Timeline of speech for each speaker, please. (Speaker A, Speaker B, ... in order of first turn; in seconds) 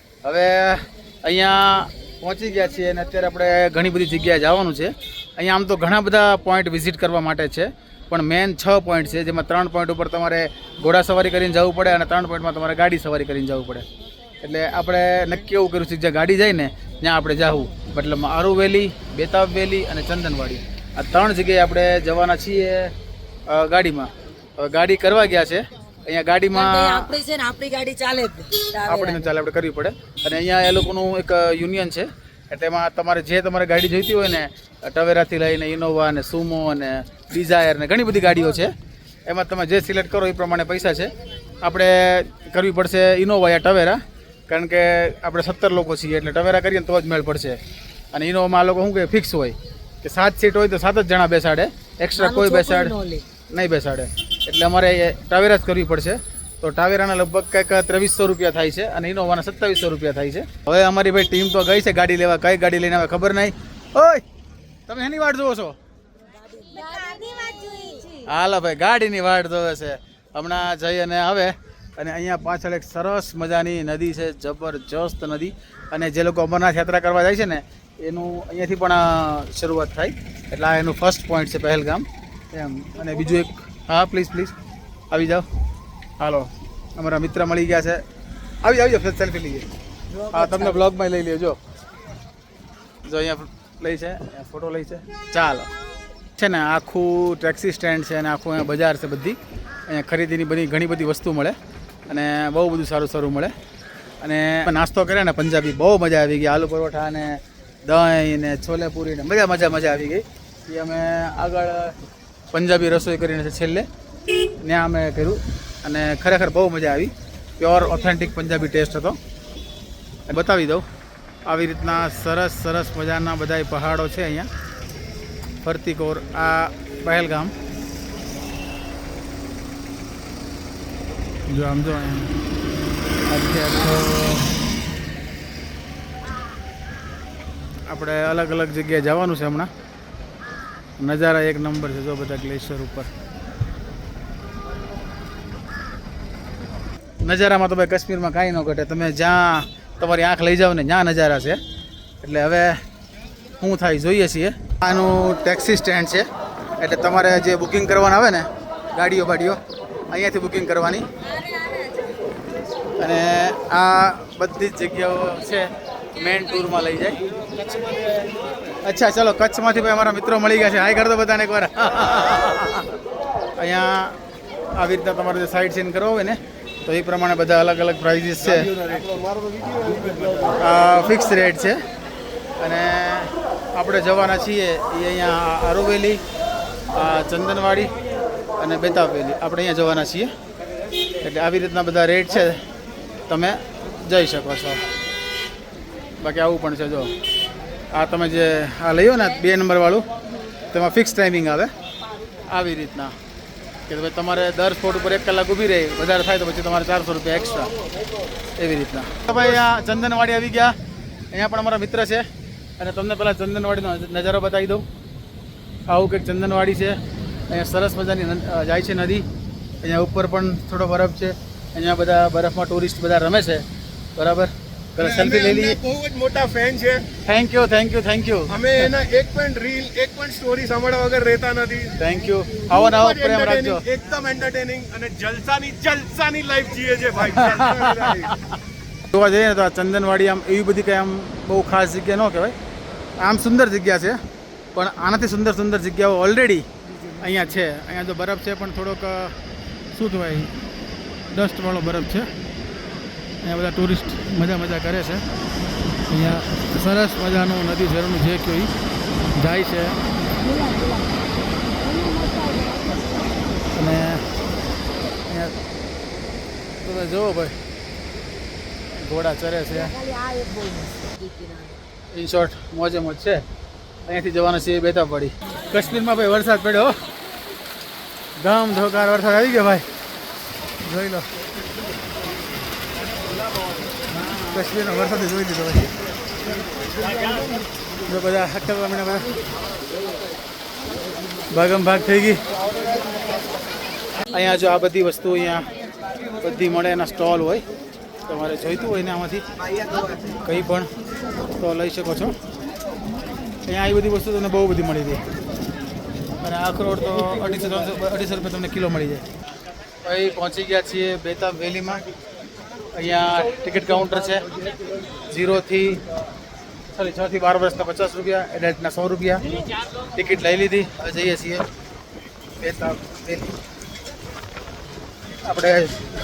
Speaker A: 0.2-13.8, 14.4-22.9, 23.5-27.1, 28.9-38.7, 39.3-47.6, 48.1-52.9, 53.5-64.2, 64.9-65.8, 68.1-84.5, 85.1-85.5, 86.2-88.0, 88.6-89.7, 90.3-91.6, 93.0-95.7, 96.4-101.5, 102.1-103.5, 104.2-112.0, 112.5-113.8, 114.4-119.2, 120.3-120.8, 121.5-124.5, 125.6-127.5, 131.5-132.3, 133.3-134.5, 137.9-139.7, 141.0-143.1, 147.2-151.6, 152.2-152.8, 153.6-156.2, 156.8-161.1, 163.0-167.2, 168.8-173.0, 173.6-174.2, 174.8-178.9, 180.6-181.8, 182.6-186.2, 186.9-187.9, 188.6-190.3, 191.2-192.6, 193.3-194.8, 196.2-197.1, 197.9-200.1, 200.7-201.7, 202.5-203.1, 203.9-207.7, 208.6-210.7, 211.3-212.2, 212.8-214.8, 215.9-217.0, 217.5-219.2, 219.8-223.6, 224.2-225.8, 227.2-228.7, 232.0-233.8, 237.3-242.6, 243.2-244.2, 244.7-246.7, 247.2-249.4, 249.9-250.5, 251.3-252.3, 253.4-255.2, 256.0-258.7, 259.4-260.0, 263.7-264.2, 265.3-265.6, 266.8-267.5, 269.0-270.0, 272.1-273.4, 274.1-277.0, 278.4-279.8, 280.8-281.3, 284.3-285.9, 288.0-289.3, 291.5-292.4, 294.3-295.7, 296.4-297.6, 298.2-299.5, 300.3-300.9, 301.5-302.3, 303.6-305.2, 306.4-309.3, 310.0-312.0, 312.9-314.5, 315.3-316.0, 316.9-319.6, 320.1-321.6, 322.6-323.5, 325.4-326.0
Speaker B: 26.5-29.3, 52.1-53.2, 66.5-68.1, 90.2-90.8, 246.8-247.5, 260.4-261.2, 261.8-263.3, 269.8-271.8
Speaker C: 167.8-168.2, 178.8-180.6, 225.0-227.1, 228.5-232.0, 232.6-238.4